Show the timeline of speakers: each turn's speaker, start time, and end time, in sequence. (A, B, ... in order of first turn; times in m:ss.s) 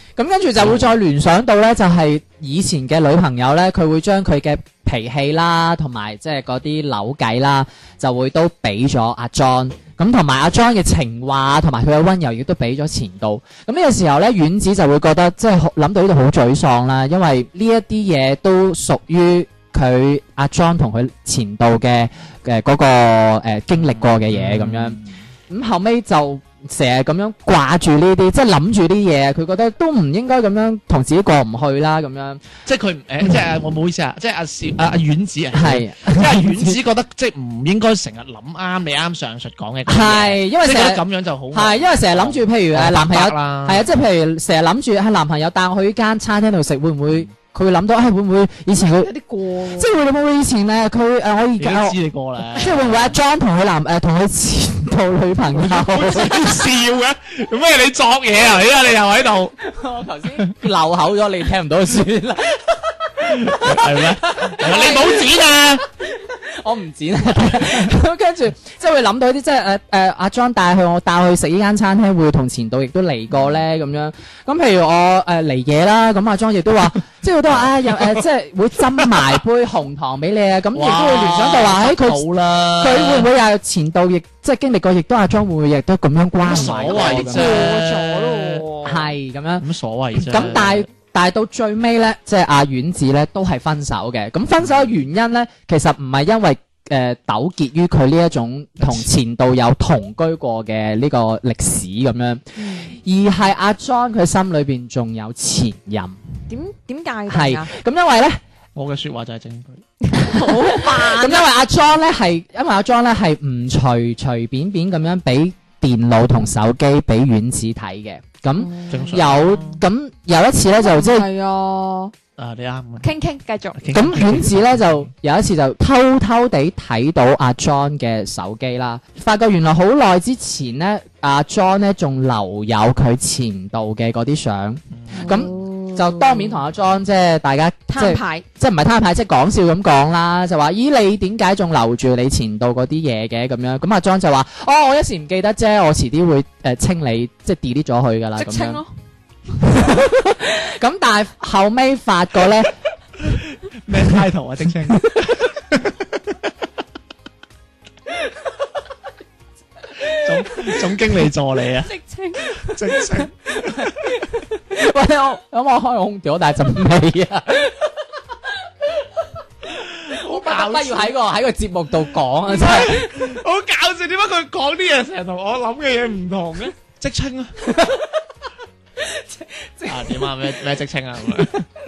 0:00.2-0:32.4 A
0:00.6-0:01.0 B
0:23.8-0:25.1 B
0:32.7-0:43.9 B
0:35.5-0:36.8 A
0:39.9-0:49.1 A
0:49.0-0:49.9 C
0:49.7-0:52.0 A
0:51.6-0:53.2 B
0:52.6-0:56.6 A
0:55.5-0:59.5 B
0:59.6-1:05.4 A
1:03.3-1:05.9 B
1:06.0-1:22.2 A
1:17.5-1:18.2 B
1:20.8-1:23.3 B
1:22.8-1:27.8 A
1:26.4-1:28.9 B
1:26.7-1:29.0 C
1:28.8-1:46.2 A
1:29.6-1:30.9 B
1:34.6-1:34.9 B
1:38.8-1:39.1 B
1:42.6-1:42.9 C
1:46.5-1:47.7 C
1:47.3-1:48.4 A
1:48.8-1:49.8 B
1:50.1-1:51.5 C
1:50.3-2:01.3 A
1:58.6-1:59.2 C
1:58.9-1:59.8 B
2:00.8-2:02.1 C
2:02.4-2:03.1 B
2:03.0-2:03.8 C
2:03.8-2:05.1 B
2:03.9-2:28.8 A
2:14.9-2:15.3 B
2:15.1-2:16.6 C
2:17.9-2:18.4 C
2:28.4-2:28.9 C
2:29.6-2:32.7 A
2:33.2-2:36.1 B
2:40.1-2:41.9 B
2:41.9-2:42.7 C
2:42.6-2:43.9 B
2:43.8-2:47.9 A
2:49.8-2:51.1 B
2:50.2-2:53.4 A
2:52.5-2:57.6 B
2:57.7-2:58.1 A
2:59.1-3:00.5 A
2:59.9-3:01.6 B